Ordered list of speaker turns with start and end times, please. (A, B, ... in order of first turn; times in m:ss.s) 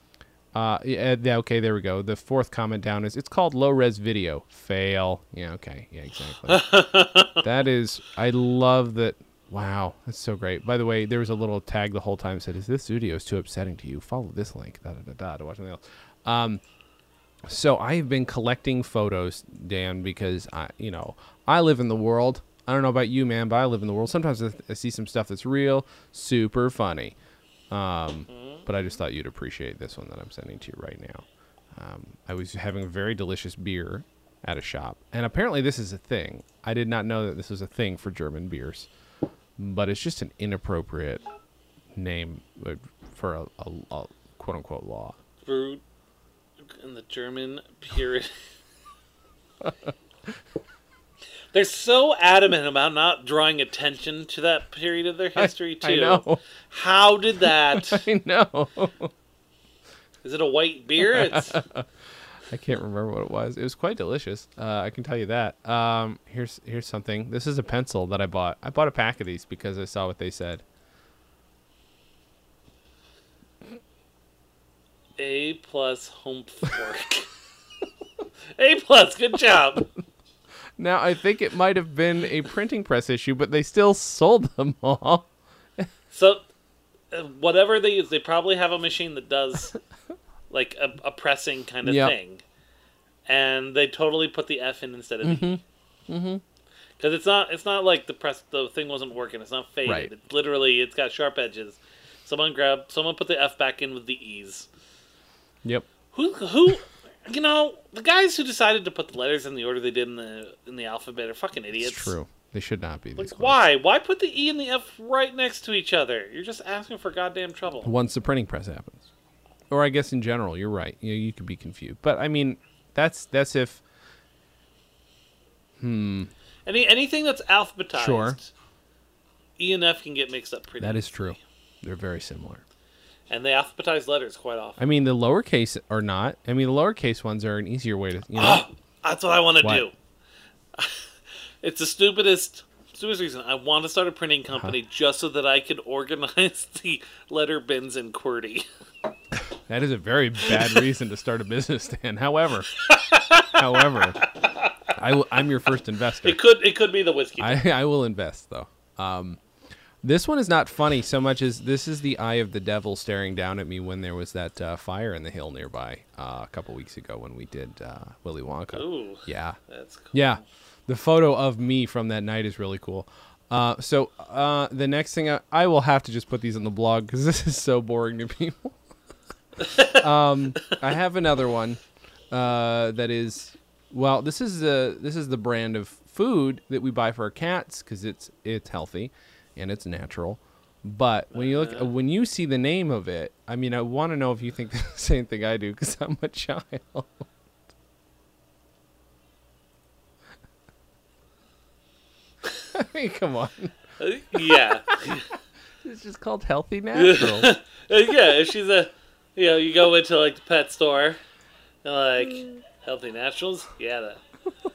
0:00.5-0:06.7 A
0:06.5-0:07.4 B
0:07.4-0:16.6 A
0:17.4-0:27.2 A
0:27.7-0:38.9 A
0:28.3-0:28.6 B
0:39.6-0:41.2 A
0:41.9-0:45.2 A
0:45.4-0:45.8 B
0:46.7-0:48.3 B
0:51.5-0:58.0 B
0:55.4-0:56.4 A
0:57.5-0:59.1 A
1:00.2-1:01.6 B
1:01.0-1:01.8 A
1:02.5-1:10.6 A
1:15.2-1:17.3 B
1:18.6-1:19.9 B
1:20.8-1:25.9 A
1:26.1-1:26.4 B
1:27.1-1:29.8 B
1:30.5-1:32.4 B
1:31.8-1:32.1 A
1:33.2-1:35.6 B
1:35.2-1:36.4 A
1:37.0-1:44.7 B
1:39.8-1:40.1 A
1:46.1-1:52.1 B
1:51.8-1:53.6 A
1:53.2-1:57.9 B
1:57.8-1:59.0 A
1:59.7-2:03.8 A
2:05.8-2:06.3 A
2:06.6-2:08.5 B
2:07.9-2:08.4 A
2:09.6-2:11.4 B
2:10.8-2:12.6 A
2:13.3-2:14.8 B
2:14.8-2:18.6 A
2:18.4-2:19.9 B
2:19.6-2:19.8 A
2:21.6-2:28.6 B
2:29.7-2:32.7 A
2:32.8-2:34.7 B
2:33.4-2:34.2 A
2:34.9-2:36.4 A
2:36.2-2:37.6 B
2:37.4-2:39.4 A
2:40.0-2:49.6 A
2:48.7-2:50.4 B
2:50.1-2:58.8 A
2:59.7-3:17.2 A
3:11.3-3:11.9 B
3:22.7-3:23.7 A
3:24.0-3:25.3 B
3:24.3-3:24.6 A
3:25.8-3:27.5 A
3:26.9-3:31.2 B
3:31.8-3:34.2 B